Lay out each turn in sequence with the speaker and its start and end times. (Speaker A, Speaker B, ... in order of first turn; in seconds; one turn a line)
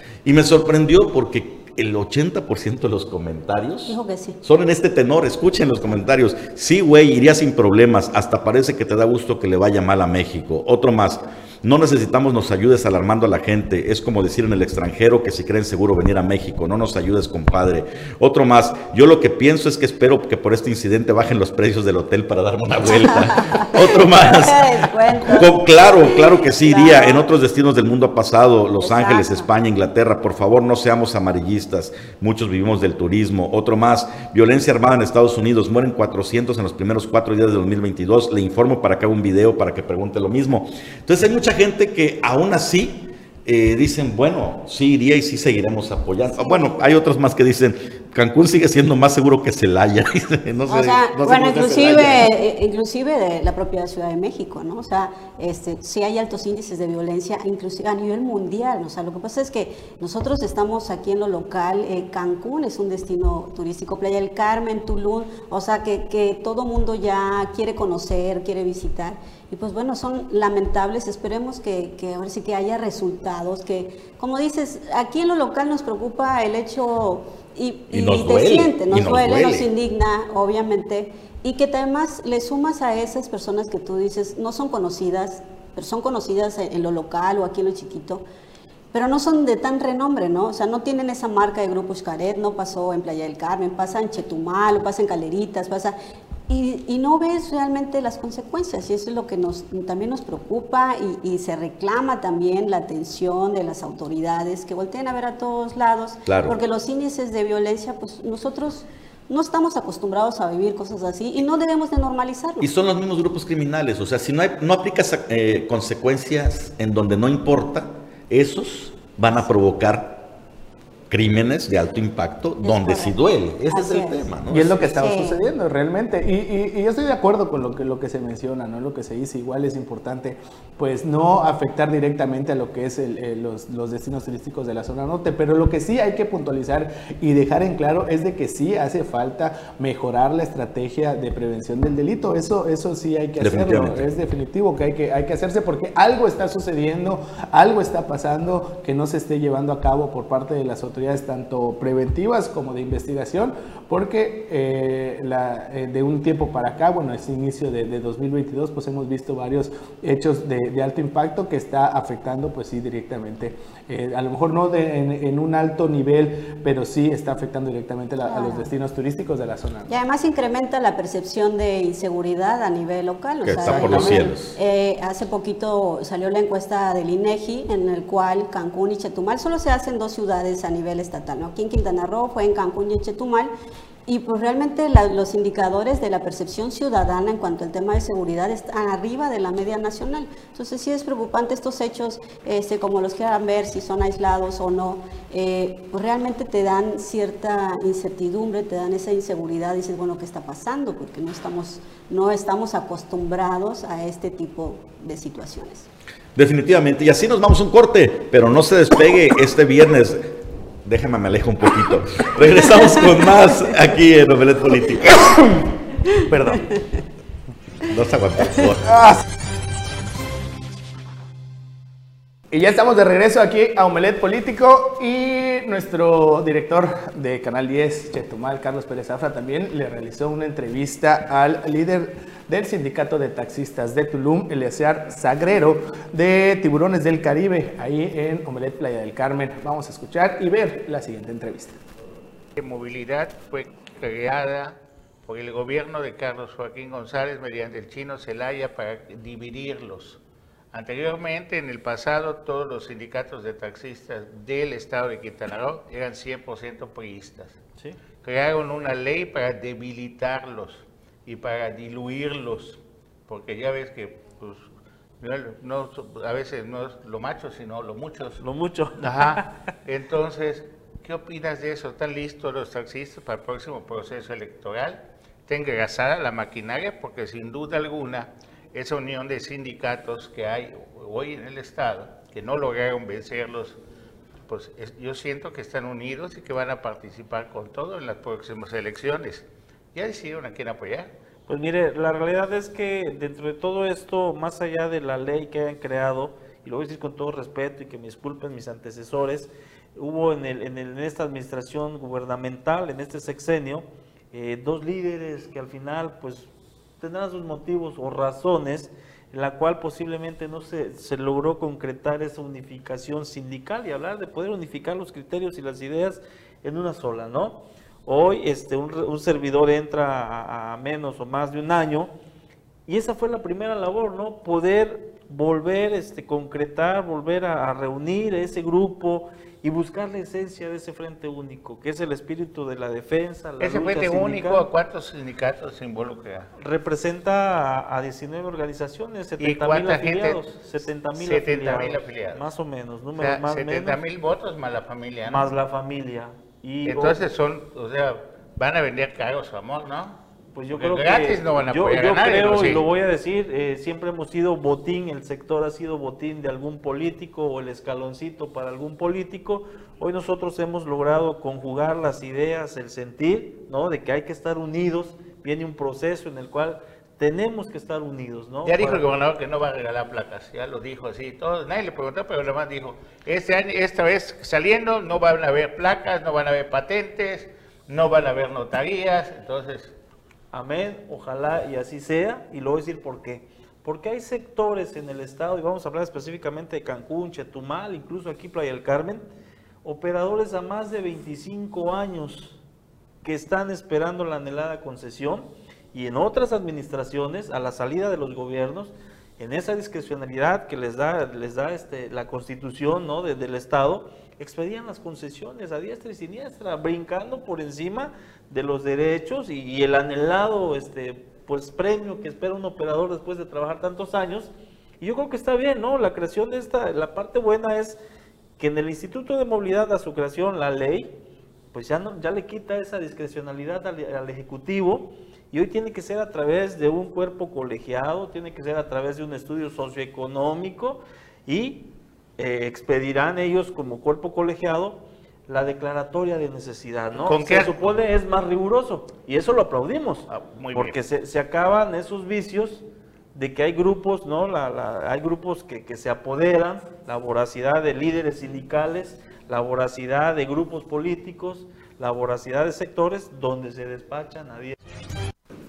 Speaker A: 0.2-52.3
Speaker B: 3.9-4.4
Speaker B: 23.4-27.2
Speaker B: 28.8-29.5
Speaker B: 46.2-46.8
Speaker B: 50.7-88.2
Speaker A: 77.9-79.7
Speaker B: 88.9-96.0
Speaker B: 96.5-112.7
Speaker A: 106.2-106.6
Speaker A: 112.6-120.3
Speaker A: 121.1-124.9
Speaker B: 122.6-124.2
Speaker C: 124.5-169.9
Speaker B: 124.9-125.4
Speaker A: 143.4-144.1
Speaker B: 168.2-168.7
Speaker B: 169.9-183.5
Speaker A: 173.4-174.6
Speaker C: 173.7-174.1
Speaker B: 184.1-205.9
Speaker A: 206.3-215.5
Speaker C: 216.3-216.8
Speaker A: 217.9-219.0
Speaker C: 218.9-219.2
Speaker C: 222.5-241.8
Speaker D: 242.6-250.2
Speaker D: 250.7-257.6
Speaker D: 258.2-268.4
Speaker E: 268.4-269.5
Speaker D: 269.0-283.8
Speaker D: 284.5-291.1
Speaker E: 291.5-306.5
Speaker E: 307.0-322.1
Speaker E: 322.9-334.7
Speaker D: 333.6-336.5
Speaker E: 336.6-344.0
Speaker D: 339.4-340.4
Speaker D: 341.1-342.5
Speaker D: 343.2-345.5
Speaker E: 345.3-347.2
Speaker D: 346.9-350.2
Speaker E: 350.5-369.1
Speaker D: 350.7-352.9
Speaker D: 368.6-379.9
Speaker E: 380.5-389.3
Speaker E: 389.8-392.6
Speaker E: 393.2-418.0
Speaker E: 418.6-421.1
Speaker E: 421.7-454.8
Speaker D: 437.2-437.9
Speaker D: 440.3-441.0